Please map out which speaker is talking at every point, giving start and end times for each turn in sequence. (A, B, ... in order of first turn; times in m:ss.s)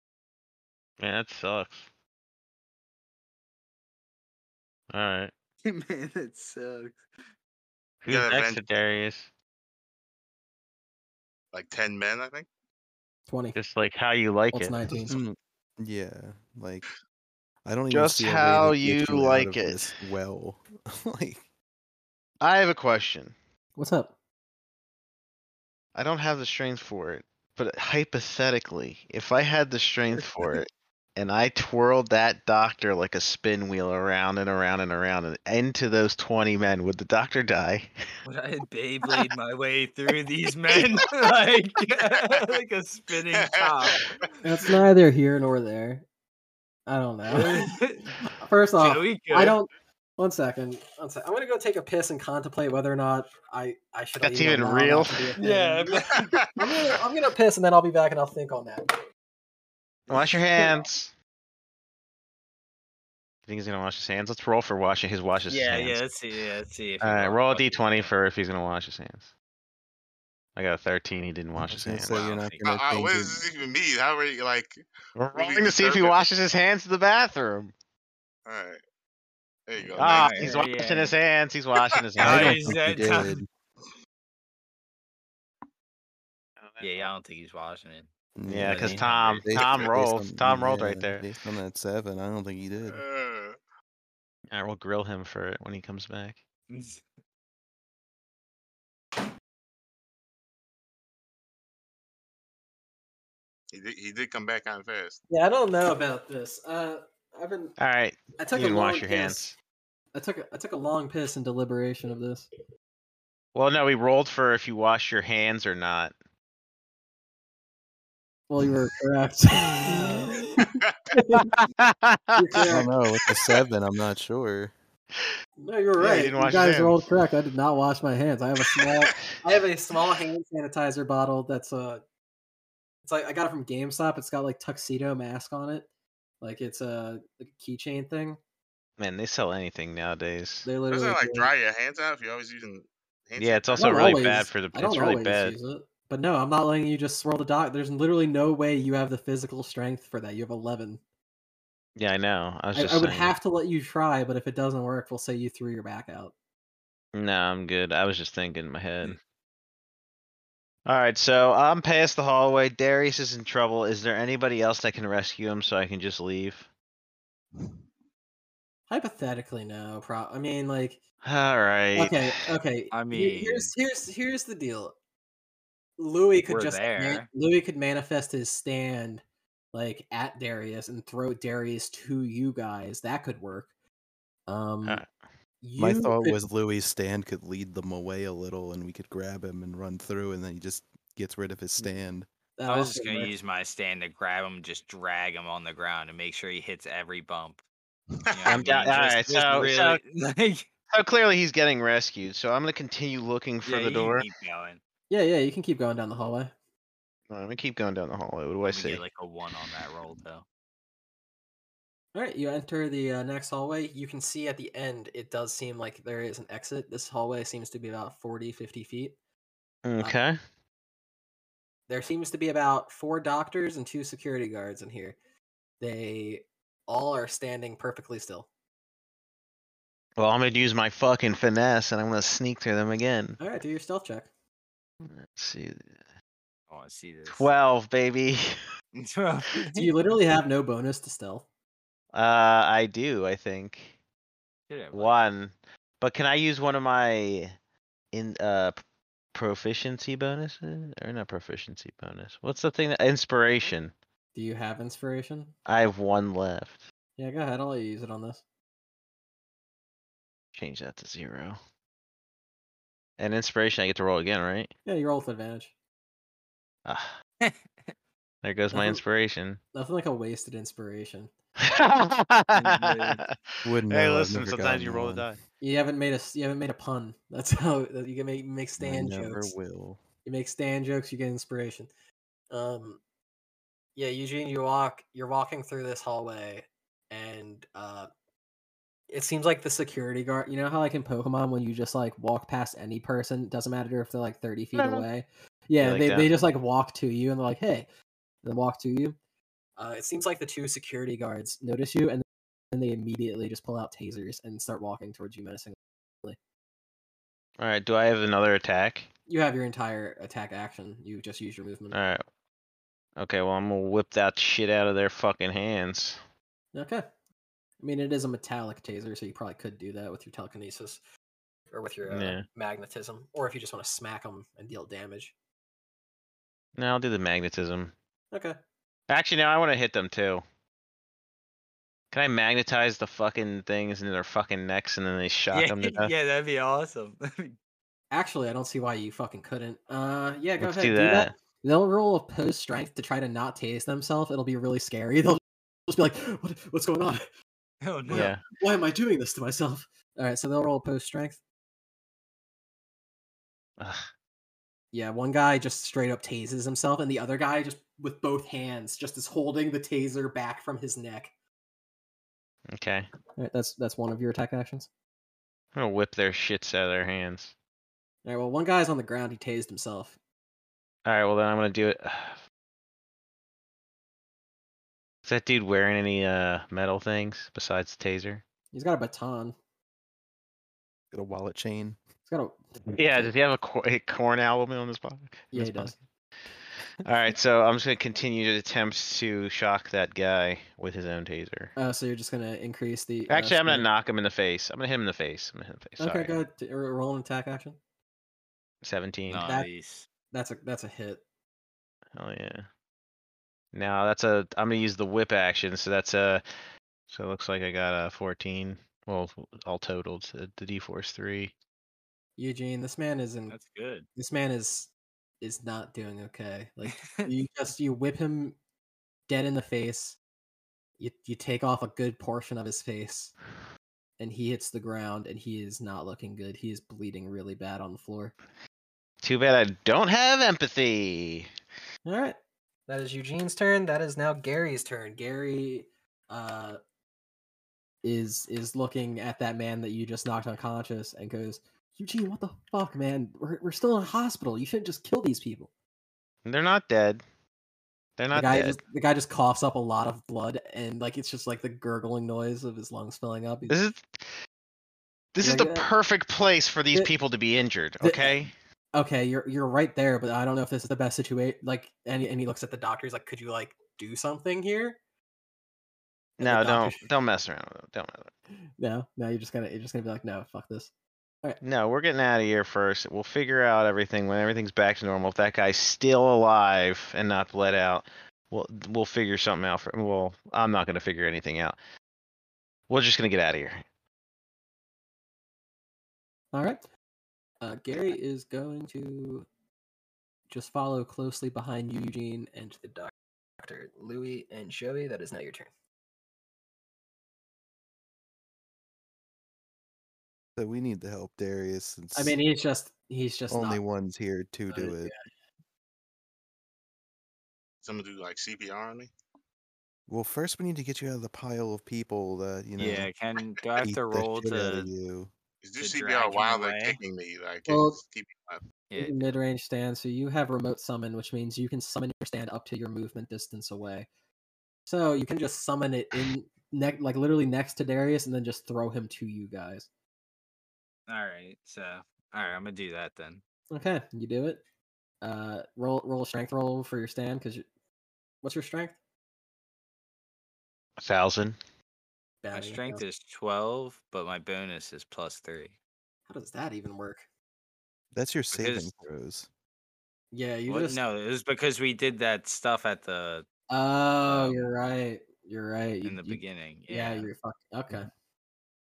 0:01.0-0:01.8 A
0:04.9-0:05.3 A
0:05.6-0:07.0 B
0:08.0-0:09.3 A
0:08.1-0:08.6 C
0:11.5-0:12.5 C
0:13.3-0:13.6 D
0:13.6-0:14.8 A
0:14.5-0:15.2 D
0:15.1-0:16.8 E
0:17.6-0:21.4 E
0:17.9-0:19.9 A
0:22.4-0:23.3 A
0:23.8-0:24.1 D
0:25.9-0:37.9 A
0:38.2-0:44.1 B
0:43.3-0:44.3 C
0:44.4-0:46.0 D
0:46.9-0:47.7 D
0:47.3-0:48.2 B
0:48.3-0:56.0 D
0:48.8-0:49.6 B
0:54.2-0:55.3 A
0:55.4-0:56.5 B
0:56.2-0:56.7 C
0:56.6-0:58.9 D
1:00.1-1:00.9 B
1:00.1-1:01.1 A
1:03.5-1:06.0 A
1:05.5-1:08.1 B
1:07.0-1:09.3 A
1:10.6-1:12.2 A
1:11.7-1:13.4 E
1:12.1-1:12.6 B
1:12.6-1:14.8 C
1:15.2-1:17.7 A
1:15.3-1:16.2 C
1:18.4-1:18.8 C
1:19.7-1:20.7 C
1:20.0-1:21.1 B
1:20.0-1:22.6 A
1:22.2-1:23.4 B
1:22.2-1:23.5 E
1:26.6-1:27.1 A
1:26.8-1:28.1 B
1:28.4-1:33.0 E
1:28.5-1:31.2 A
1:28.6-1:29.5 B
1:32.8-1:33.6 C
1:34.5-1:36.4 A
1:36.7-1:37.0 B
1:43.7-1:45.2 C
1:45.3-1:47.8 D
1:47.8-1:49.6 A
1:48.4-1:49.5 D
1:50.1-1:52.5 D
1:53.5-1:56.1 A
1:58.5-2:01.6 D
2:00.8-2:01.1 C
2:01.3-2:02.8 A
2:02.3-2:02.9 D
2:02.6-2:04.7 E
2:05.6-2:12.0 D
2:06.0-2:07.0 A
2:13.0-2:15.9 D
2:16.4-2:18.4 D
2:19.0-2:20.7 A
2:20.6-2:21.5 D
2:20.9-2:24.2 C
2:23.4-2:25.6 A
2:23.7-2:31.0 D
2:32.0-2:33.4 A
2:32.7-2:36.3 D
2:37.1-2:39.2 A
2:40.8-2:46.7 A
2:48.9-2:51.0 D
2:51.2-2:52.4 A
2:51.9-2:54.9 D
2:52.9-2:53.7 B
2:56.0-2:59.2 D
2:56.5-2:57.3 B
2:59.7-3:03.7 D
3:04.5-3:05.0 D
3:05.6-3:06.4 D
3:05.8-3:12.3 E
3:12.6-3:13.3 D
3:12.7-3:17.6 B
3:18.3-3:18.6 C
3:18.3-3:20.7 B
3:18.5-3:20.0 A
3:20.9-3:24.3 A
3:23.6-3:24.8 B
3:25.1-3:26.5 D
3:27.3-3:29.0 A
3:28.7-3:30.4 B
3:32.1-3:39.2 D
3:39.8-3:40.4 A
3:41.9-3:45.2 D
3:45.8-3:48.5 D
3:50.2-3:53.4 A
3:53.4-3:54.3 D
3:55.0-3:55.9 A
3:56.7-3:57.5 B
3:57.3-3:58.6 A
3:58.9-3:59.9 B
3:59.7-4:01.4 D
4:02.1-4:03.9 A
4:04.7-4:05.2 B
4:04.9-4:07.5 A
4:08.1-4:08.8 A
4:09.3-4:13.9 A
4:14.3-4:15.5 D
4:15.6-4:16.8 A
4:17.2-4:18.4 D
4:20.5-4:21.6 A
4:23.2-4:24.7 A
4:24.8-4:25.7 D
4:26.8-4:27.1 A
4:28.4-4:29.6 A
4:28.7-4:29.0 D
4:29.7-4:31.3 D
4:31.6-4:35.4 A
4:32.5-4:33.2 B
4:33.6-4:35.3 E
4:35.6-4:39.5 D
4:38.8-4:40.0 E
4:40.2-4:41.9 D
4:42.5-4:43.0 D
4:44.0-4:48.1 D
4:49.1-4:57.9 D
4:54.7-4:55.1 A
4:55.8-4:56.3 A
4:58.4-4:59.2 D
4:59.8-5:06.4 D
5:07.6-5:09.1 A
5:09.3-5:12.0 D
5:11.9-5:12.2 A
5:13.2-5:16.2 A
5:16.7-5:17.0 D
5:17.8-5:21.0 D
5:21.7-5:25.3 D
5:22.0-5:22.4 A
5:26.8-5:27.9 A
5:29.1-5:30.4 A
5:32.1-5:36.1 A
5:35.5-5:37.6 B
5:38.1-5:47.2 D
5:40.6-5:41.3 A
5:47.8-5:48.3 B
5:48.1-5:51.4 D
5:48.1-5:48.4 A
5:53.8-5:54.0 A
5:54.9-6:01.3 D
6:02.7-6:03.1 A
6:03.4-6:04.9 D
6:05.7-6:07.5 A
6:08.2-6:10.2 D
6:11.0-6:12.4 A
6:15.2-6:18.4 A
6:18.7-6:19.6 D
6:21.1-6:22.0 E
6:22.3-6:22.6 D
6:22.9-6:25.9 A
6:25.5-6:26.0 D
6:27.0-6:31.7 A
6:31.8-6:33.8 D
6:33.3-6:36.3 A
6:36.0-6:37.8 D
6:38.8-6:39.5 A
6:39.3-6:40.0 B
6:39.4-6:39.7 D
6:40.3-6:41.2 D
6:42.1-6:42.7 A
6:43.7-6:46.4 A
6:47.1-6:51.5 A
6:52.4-6:53.5 D
6:53.5-6:54.1 B
6:54.2-6:58.6 D
6:57.0-6:57.3 B
6:59.3-7:00.2 D
7:01.0-7:03.3 D
7:04.2-7:08.3 D
7:09.2-7:11.5 A
7:12.0-7:12.4 D
7:12.9-7:16.8 D
7:18.0-7:25.7 D
7:26.4-7:27.2 A
7:28.2-7:28.8 A
7:28.3-7:33.8 D
7:33.7-7:34.4 A
7:35.3-7:38.5 A
7:35.4-7:35.9 D
7:38.0-7:38.4 D
7:38.9-7:45.0 D
7:46.4-7:47.0 D
7:46.4-7:48.3 A
7:48.8-7:50.9 D
7:51.6-8:01.8 A
8:02.9-8:03.8 A
8:06.5-8:06.8 D
8:07.6-8:09.4 D
8:10.5-8:15.7 D
8:20.6-8:22.4 E
8:22.1-8:23.8 D
8:23.5-8:25.1 E
8:24.7-8:25.2 D
8:27.8-8:29.1 C
8:30.1-8:33.1 E
8:32.8-8:34.9 B
8:33.8-8:35.3 E
8:35.6-8:38.6 C
8:35.8-8:37.0 B
8:37.7-8:38.0 D
8:38.9-8:39.3 B
8:39.0-8:44.1 D
8:44.8-8:49.9 D
8:51.1-8:53.4 B
8:53.7-8:54.6 D
8:55.2-8:57.6 D
8:58.4-8:59.0 D
9:01.0-9:01.6 A
9:02.4-9:03.0 D
9:02.5-9:05.7 B
9:06.3-9:07.2 D
9:08.1-9:09.5 E
9:08.5-9:08.9 B
9:10.3-9:11.0 D
9:10.7-9:13.4 B
9:13.7-9:18.1 D
9:14.3-9:14.6 B
9:16.0-9:17.3 B